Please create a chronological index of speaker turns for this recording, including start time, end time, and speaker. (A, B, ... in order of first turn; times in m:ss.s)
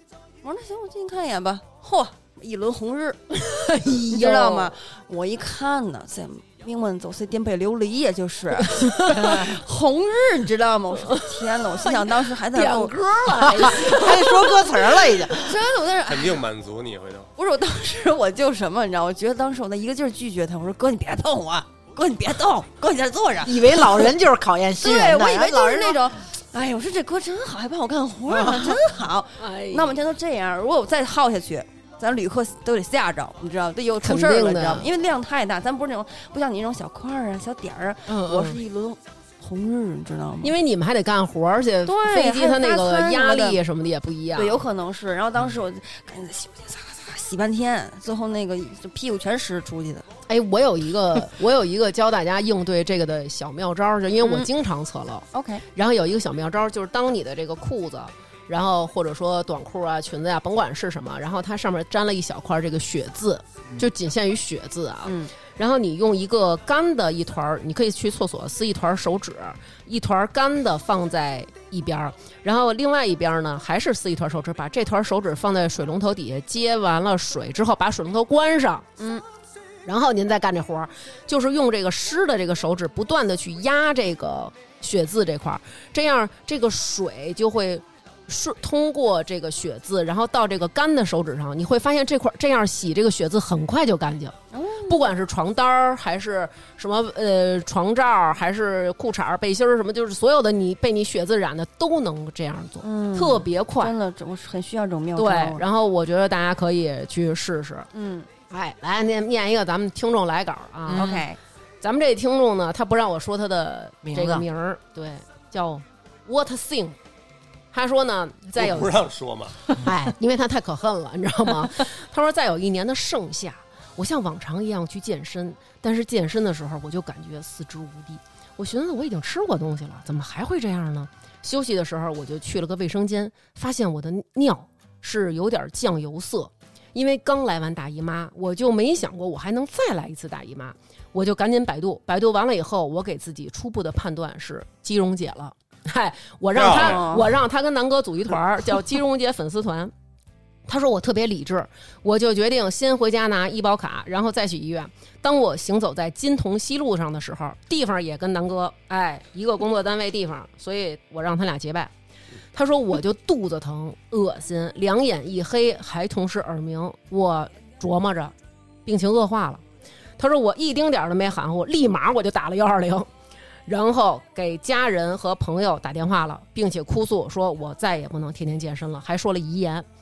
0:00.4-0:03.2 A
0:03.3-0:04.8 B
0:04.1-0:13.0 A
0:08.6-0:09.3 B
0:11.0-0:14.7 B
0:13.5-0:15.6 C
0:15.4-0:16.4 A
0:16.1-0:17.3 D
0:17.4-0:24.2 A
0:23.4-0:26.0 C
0:24.8-0:40.5 A
0:28.3-0:28.8 C
0:29.4-0:30.0 B
0:34.0-0:34.9 B
0:38.1-0:38.6 B
0:40.4-0:44.6 B
0:41.8-0:43.6 A
0:44.3-0:50.1 A
0:50.3-1:18.9 B
0:54.2-0:54.5 A
0:55.3-0:55.6 A
1:05.0-1:05.3 A
1:19.8-1:44.0 B
1:34.5-1:35.0 A
1:42.8-1:45.6 A
1:45.2-1:47.9 B
1:47.9-1:48.3 A
1:48.5-1:51.2 B
1:50.9-1:51.2 C
1:50.9-1:51.4 A
1:51.8-1:57.0 B
1:54.0-1:54.4 C
1:57.7-1:59.1 B
1:58.6-1:59.8 D
1:59.8-2:29.9 B
2:26.5-2:27.1 D
2:26.7-2:27.3 A
2:30.7-2:41.9 B
2:42.5-2:48.3 B
2:48.8-2:49.6 B
2:50.2-2:53.1 B
2:53.7-2:59.9 B